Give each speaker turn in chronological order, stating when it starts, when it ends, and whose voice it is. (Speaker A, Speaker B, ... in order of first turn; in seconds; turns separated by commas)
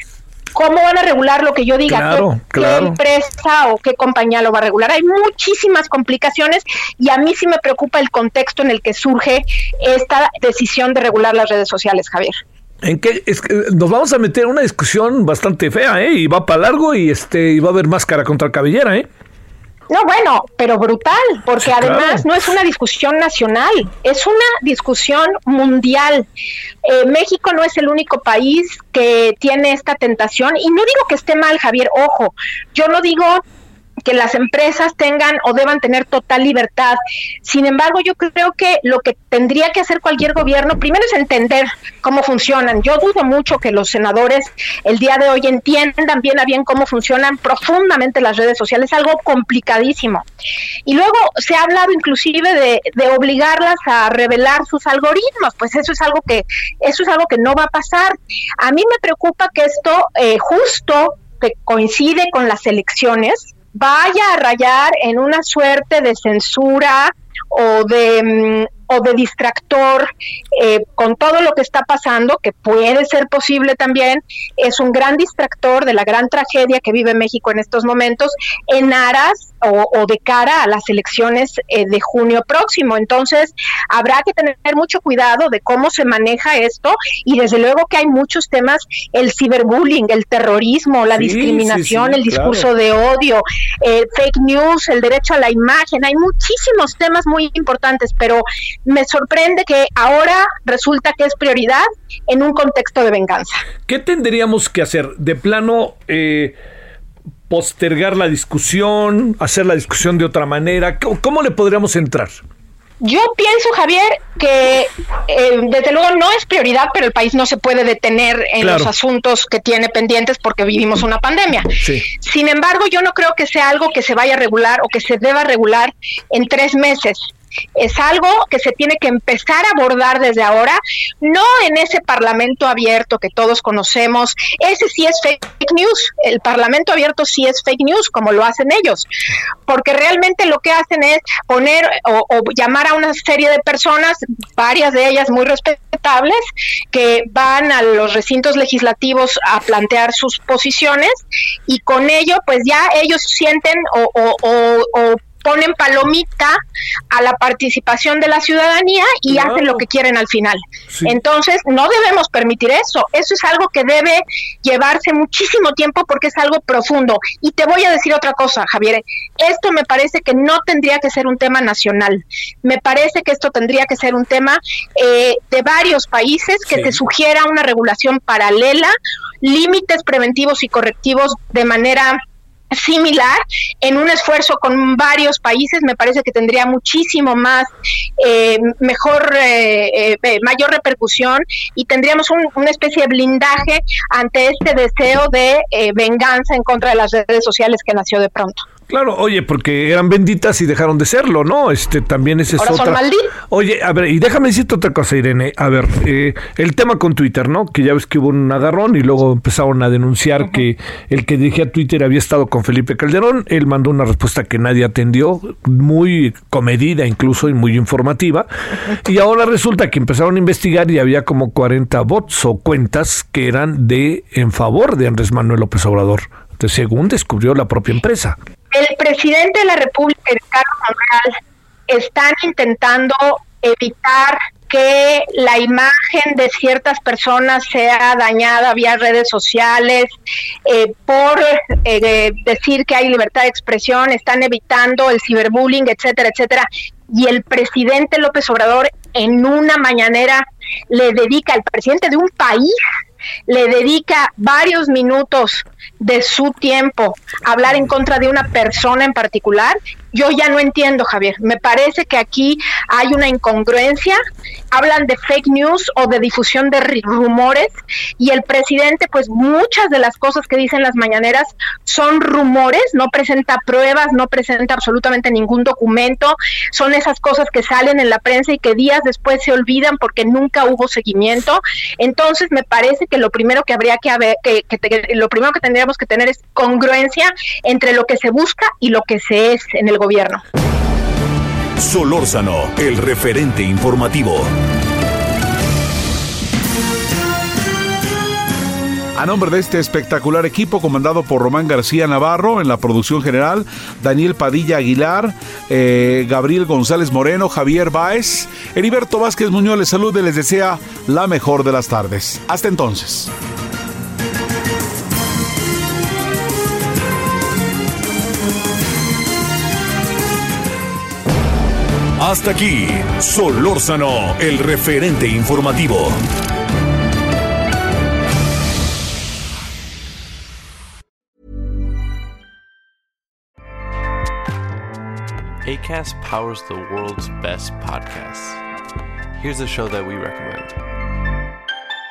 Speaker A: 0.5-12.4, Speaker B: 1.9-3.0, Speaker B: 12.8-19.1, Speaker A: 19.9-26.2, Speaker B: 21.6-22.3, Speaker A: 26.8-33.4, Speaker A: 34.0-50.2, Speaker A: 50.9-103.6, Speaker B: 91.1-92.7, Speaker B: 103.9-106.5, Speaker B: 107.5-112.4, Speaker A: 113.0-127.2, Speaker B: 118.6-118.9, Speaker B: 121.8-122.1, Speaker A: 127.8-139.1, Speaker A: 139.7-182.2, Speaker B: 159.3-159.8, Speaker B: 160.9-161.2, Speaker B: 176.7-177.0, Speaker A: 182.7-198.6, Speaker B: 198.9-228.4, Speaker A: 202.6-203.3, Speaker A: 228.7-240.1, Speaker A: 240.7-252.8, Speaker A: 253.5-264.2, Speaker A: 264.7-290.4, Speaker C: 291.8-294.5, Speaker D: 299.1-313.3, Speaker C: 322.2-326.2, Speaker E: 335.6-338.6, Speaker E: 339.4-340.8